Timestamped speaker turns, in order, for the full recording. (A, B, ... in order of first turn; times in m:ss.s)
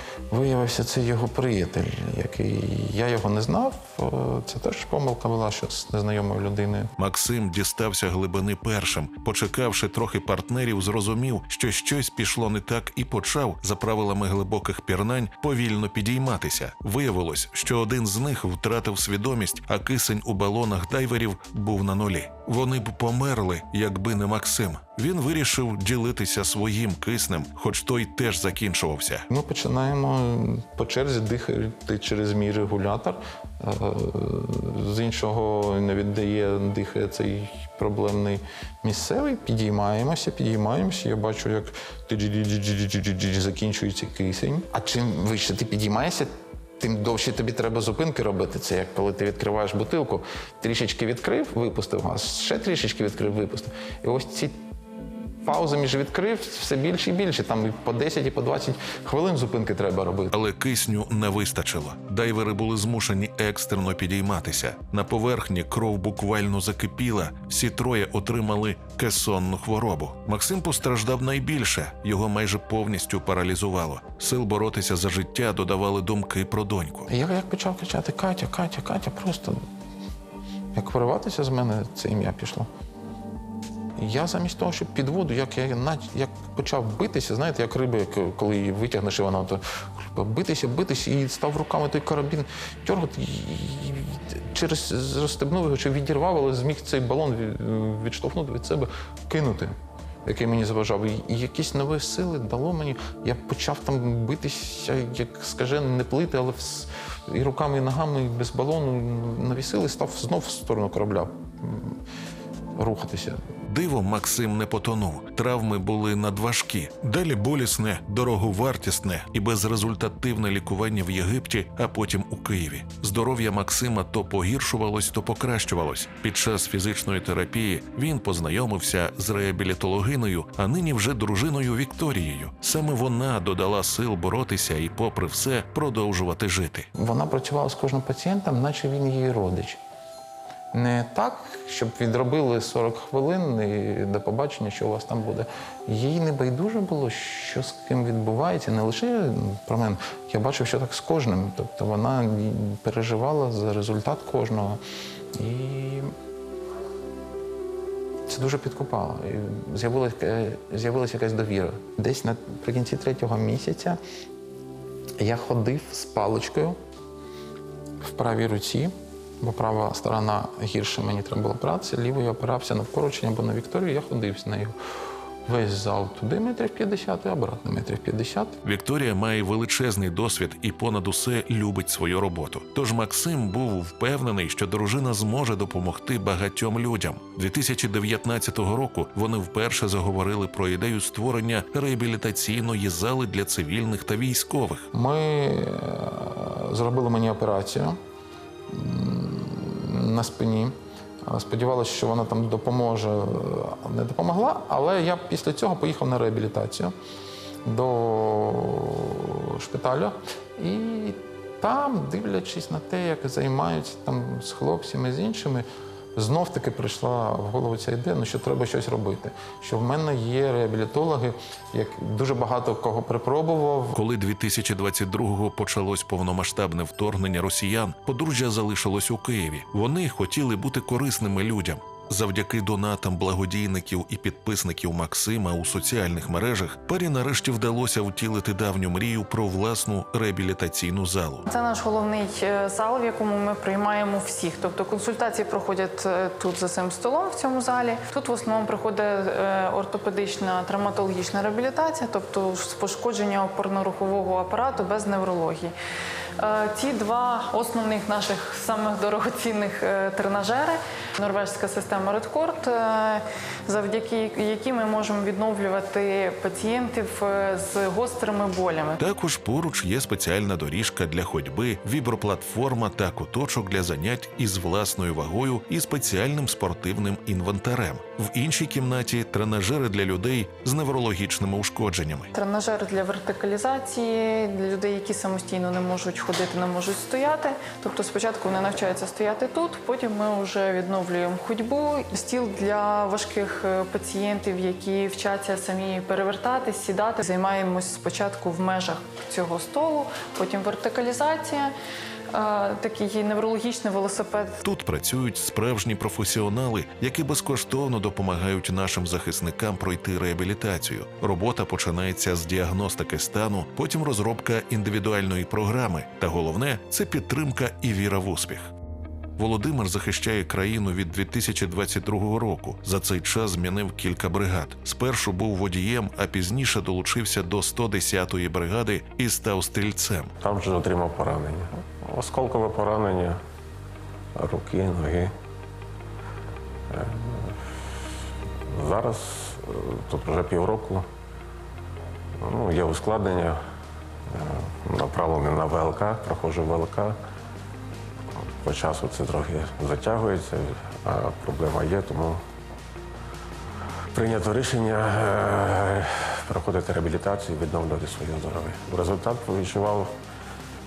0:00.3-0:06.9 A
0:07.0-0:29.3 B
0:29.3-0:54.6 A
0:55.4-1:00.3 A
1:00.3-1:17.1 B
1:17.1-1:19.6 A
1:20.7-1:22.7 A
1:24.0-1:39.7 A
1:40.2-1:52.0 A
1:52.8-1:53.4 A
1:53.6-2:16.9 B
2:17.0-2:19.8 A
2:20.7-2:34.8 A
2:35.4-2:36.1 A
2:38.3-2:44.0 A
2:45.2-2:46.8 A
2:48.0-2:54.7 A
2:55.4-2:58.6 A
2:58.6-3:14.9 B
3:14.9-3:18.0 A
3:18.7-3:20.7 A
3:21.3-3:26.9 A
3:27.6-3:35.6 A
3:36.2-3:44.0 A
3:43.9-4:01.4 B
4:01.5-4:15.7 C
4:16.4-4:29.0 C
4:29.0-4:42.3 B
4:42.3-5:01.7 C
5:02.3-5:04.6 C
5:04.6-5:18.7 B
5:19.4-5:30.3 B
5:30.4-5:33.4 D
5:34.4-5:35.3 D
5:36.9-5:37.6 D
5:38.7-5:41.0 D
5:42.4-5:43.6 D
5:44.3-5:47.2 D
5:48.6-5:52.4 D
5:54.1-6:00.1 D